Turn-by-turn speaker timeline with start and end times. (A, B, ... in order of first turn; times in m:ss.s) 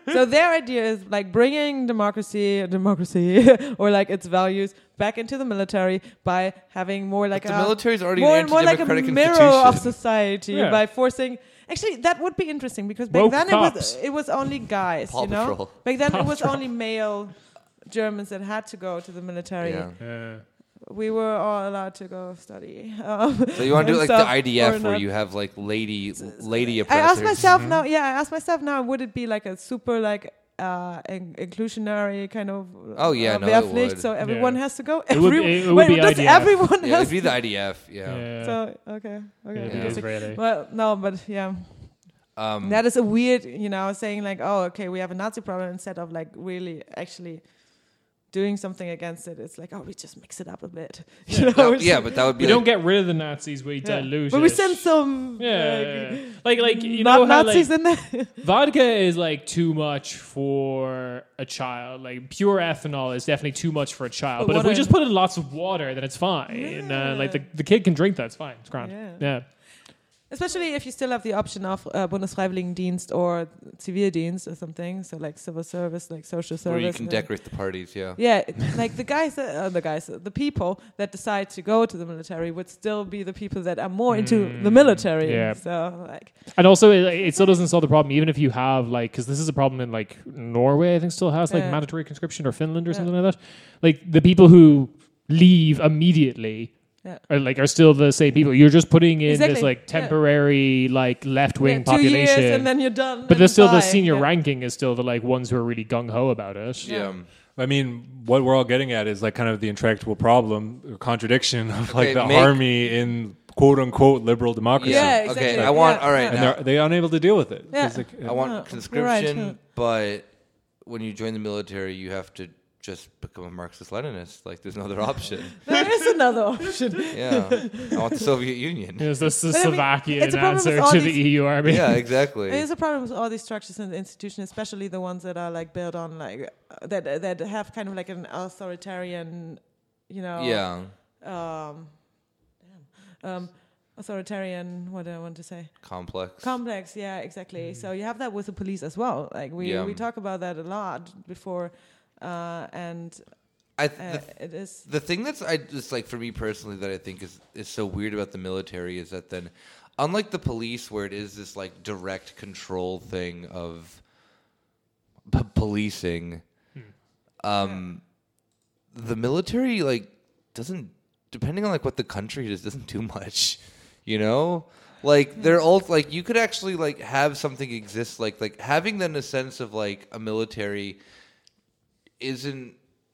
0:00.1-0:25.2 A
0:07.3-0:10.0 B
0:10.5-0:10.8 C
0:13.1-0:14.5 C
0:15.1-0:15.7 B
0:16.1-0:16.7 C
0:19.6-0:20.0 B
0:20.0-0:20.4 C
0:23.5-0:27.4 B
0:26.2-0:37.7 A
0:27.4-0:27.8 D
0:33.0-0:34.1 B
0:34.2-0:36.7 C
0:36.8-0:38.3 B
0:38.0-0:40.4 C
0:38.4-0:52.4 A
0:39.6-0:40.1 B
0:42.3-0:42.8 B
0:51.3-1:09.8 C
0:51.5-0:52.7 B
0:53.8-0:58.3 A
1:04.4-1:04.9 A
1:06.5-1:07.4 A
1:08.8-1:27.6 A
1:16.6-1:18.2 B
1:24.1-1:47.0 C
1:31.5-1:33.1 A
1:39.2-1:40.2 A
1:41.6-1:44.3 A
1:46.8-1:47.3 B
1:46.8-1:47.2 A
1:47.6-1:58.4 D
1:51.9-1:52.6 B
1:54.8-1:56.6 B
1:54.8-1:56.5 A
1:57.7-1:59.6 A
1:58.2-2:05.7 B
2:05.6-2:07.9 A
2:06.9-2:07.4 C
2:07.1-2:09.3 B
2:09.0-2:12.2 C
2:09.5-2:11.4 A
2:11.6-2:12.6 B
2:12.4-2:34.9 A
2:20.4-2:20.9 B
2:25.8-2:26.6 B
2:27.6-2:27.9 C
2:29.6-2:30.0 B
2:33.8-2:44.1 B
2:45.2-2:46.8 B
2:47.4-3:01.0 B
2:47.6-2:47.8 A
3:02.2-3:02.8 B